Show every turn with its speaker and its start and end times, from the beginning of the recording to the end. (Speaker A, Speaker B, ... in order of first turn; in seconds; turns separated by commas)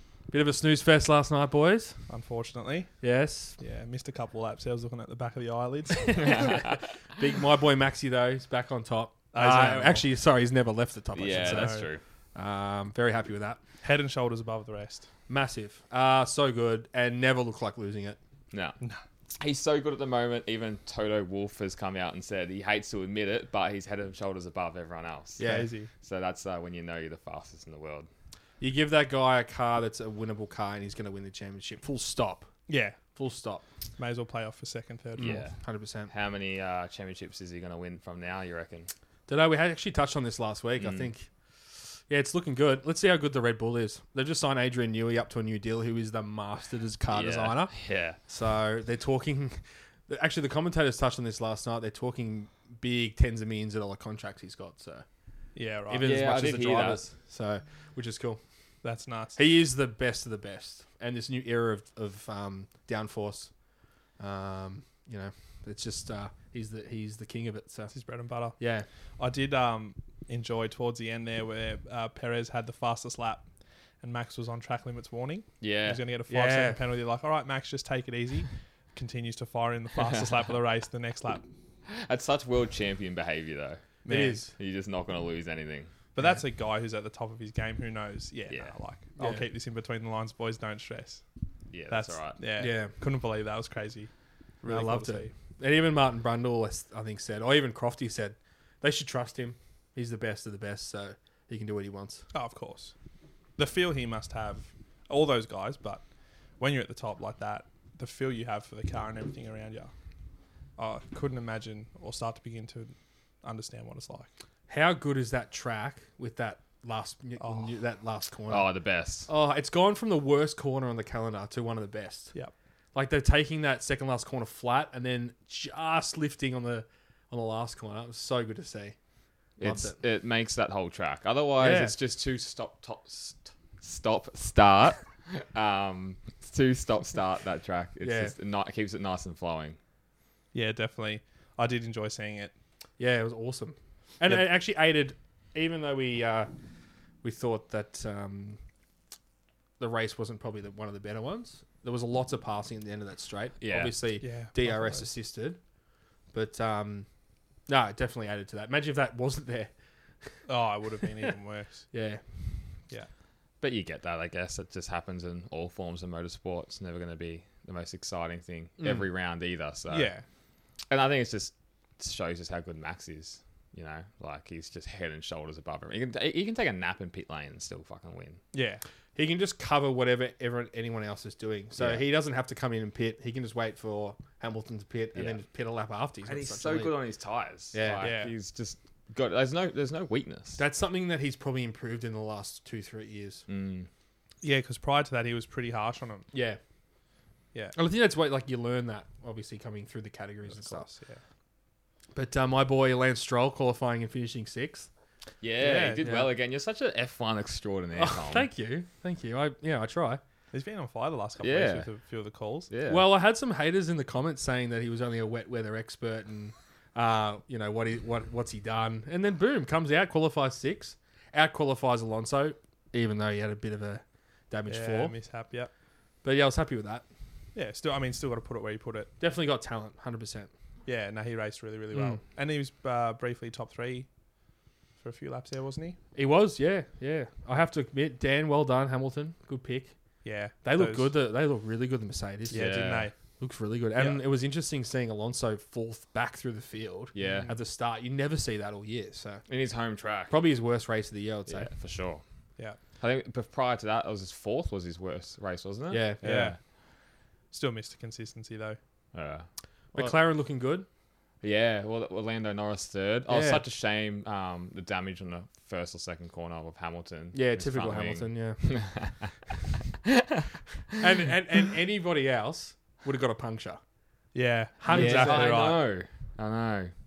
Speaker A: 0.3-1.9, Speaker B: 2.1-2.9, Speaker A: 3.0-3.6, Speaker B: 3.6-6.6, Speaker A: 6.1-11.8, Speaker C: 6.2-6.8, Speaker B: 9.3-10.0, Speaker C: 11.1-12.0, Speaker B: 11.4-11.9, Speaker A: 12.3-13.6, Speaker B: 13.8-15.1, Speaker A: 15.3-18.2, Speaker C: 18.5-18.8, Speaker C: 19.3-25.4, Speaker A: 25.4-25.7, Speaker B: 25.4-25.9, Speaker C: 26.0-28.1, Speaker A: 28.6-32.5, Speaker B: 32.7-33.0, Speaker A: 33.1-33.6, Speaker B: 34.0-35.4, Speaker A: 35.1-36.1, Speaker C: 35.2-35.6, Speaker C: 36.1-38.9, Speaker A: 39.3-41.3, Speaker C: 40.8-41.1, Speaker A: 42.1-55.0, Speaker C: 47.1-48.2, Speaker B: 55.5-56.1, Speaker A: 55.9-58.4, Speaker C: 56.0-57.0, Speaker B: 58.8-59.4, Speaker A: 59.4-63.5, Speaker A: 64.2-67.9, Speaker B: 67.9-68.6, Speaker A: 68.6-68.9, Speaker B: 69.2-73.4, Speaker B: 74.0-81.4, Speaker C: 75.6-76.0, Speaker A: 76.3-76.8, Speaker C: 80.0-80.3, Speaker C: 81.9-84.0, Speaker B: 84.0-84.5, Speaker A: 84.1-84.5, Speaker C: 84.5-85.9, Speaker B: 86.1-91.2, Speaker A: 86.2-86.4, Speaker C: 88.5-88.8, Speaker A: 89.2-89.4, Speaker C: 91.7-92.4, Speaker B: 91.9-94.1, Speaker A: 92.6-92.9, Speaker B: 94.6-95.3, Speaker A: 94.7-102.2, Speaker B: 102.3-102.9, Speaker B: 103.6-106.0, Speaker B: 106.6-109.9, Speaker B: 110.8-114.3, Speaker A: 114.7-118.7, Speaker B: 117.4-117.7, Speaker C: 118.5-119.3, Speaker A: 119.2-122.3, Speaker A: 122.9-128.9, Speaker C: 129.6-139.8, Speaker A: 129.6-130.0, Speaker A: 131.6-131.9, Speaker A: 138.0-138.3, Speaker B: 140.5-142.5, Speaker A: 143.0-146.5, Speaker A: 147.2-148.6, Speaker A: 149.8-155.6, Speaker C: 153.6-153.9, Speaker B: 154.2-155.1, Speaker A: 156.3-157.1, Speaker A: 157.7-159.7, Speaker B: 160.5-161.9, Speaker A: 161.9-162.6, Speaker C: 163.6-170.1, Speaker A: 168.8-169.1, Speaker B: 169.9-170.2, Speaker C: 170.9-178.4, Speaker B: 178.5-178.8, Speaker A: 179.2-186.9, Speaker C: 181.8-182.0, Speaker C: 185.1-185.4, Speaker C: 186.2-190.6, Speaker A: 187.7-188.1, Speaker B: 188.0-188.3, Speaker A: 190.6-193.4, Speaker C: 193.5-193.9, Speaker B: 194.4-196.3, Speaker A: 196.3-196.6, Speaker A: 197.7-200.9, Speaker B: 200.4-201.2, Speaker A: 202.1-204.9, Speaker C: 205.4-208.5, Speaker B: 205.6-206.0, Speaker A: 206.0-206.3, Speaker A: 207.9-210.2, Speaker B: 210.5-212.7, Speaker C: 211.4-211.9, Speaker C: 212.7-213.1, Speaker A: 212.9-225.1, Speaker B: 224.7-225.7, Speaker A: 226.2-227.0, Speaker B: 227.5-229.1, Speaker A: 229.2-230.5, Speaker B: 230.8-234.1, Speaker A: 231.9-232.2, Speaker B: 235.0-236.0, Speaker A: 236.1-239.9, Speaker B: 240.2-241.1, Speaker A: 240.6-242.7, Speaker B: 242.5-243.1, Speaker C: 242.5-243.1, Speaker A: 243.4-249.4, Speaker B: 243.9-244.2, Speaker C: 247.1-247.5, Speaker B: 247.2-247.6, Speaker C: 249.5-250.3, Speaker A: 250.3-251.7, Speaker C: 251.5-252.2, Speaker C: 253.0-256.6, Speaker A: 255.9-256.2, Speaker B: 256.2-256.7, Speaker B: 257.5-258.8, Speaker C: 259.1-259.5, Speaker A: 259.9-260.9, Speaker C: 261.4-269.4, Speaker A: 263.3-263.6, Speaker A: 267.3-269.0, Speaker A: 270.9-273.8, Speaker B: 274.3-275.8, Speaker A: 274.8-275.6, Speaker C: 274.9-276.9